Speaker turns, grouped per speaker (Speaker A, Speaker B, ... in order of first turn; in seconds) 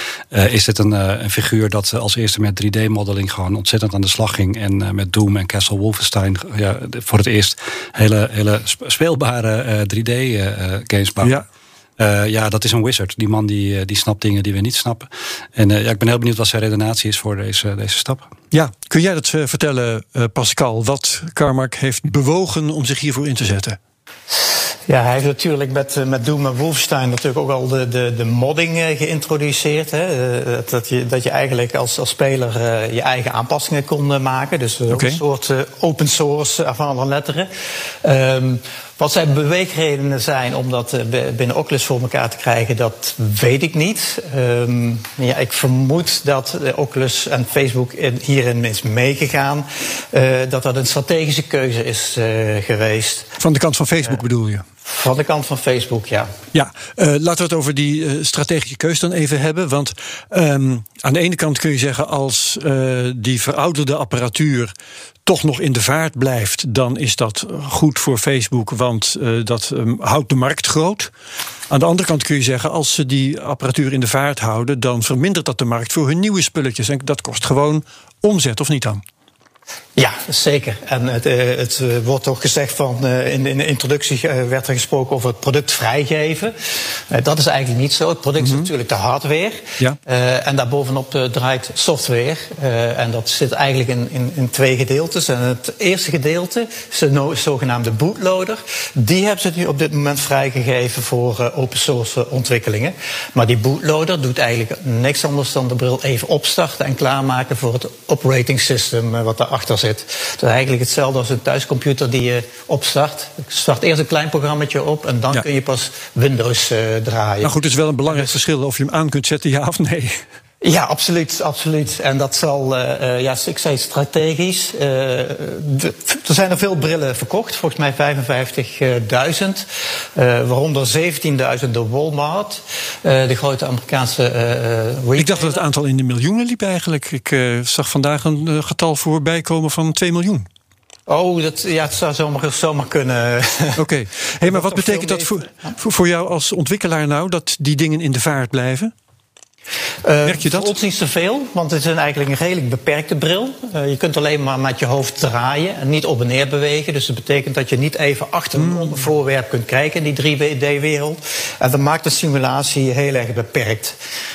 Speaker A: 0.3-11.4, 12.0-18.3
Speaker B: 18.5-23.8, 34.9-35.2, 53.4-54.6, 56.5-64.7, 65.2-71.1, 71.7-79.0, 88.4-88.7, 117.4-120.2, 135.2-140.5, 143.8-148.9, 150.3-150.7, 158.6-159.0
Speaker C: 24.9-37.5, 38.0-53.4, 54.9-56.3, 80.0-117.5, 118.1-118.4, 120.6-135.6, 141.1-143.8, 144.4-145.7, 150.0-164.0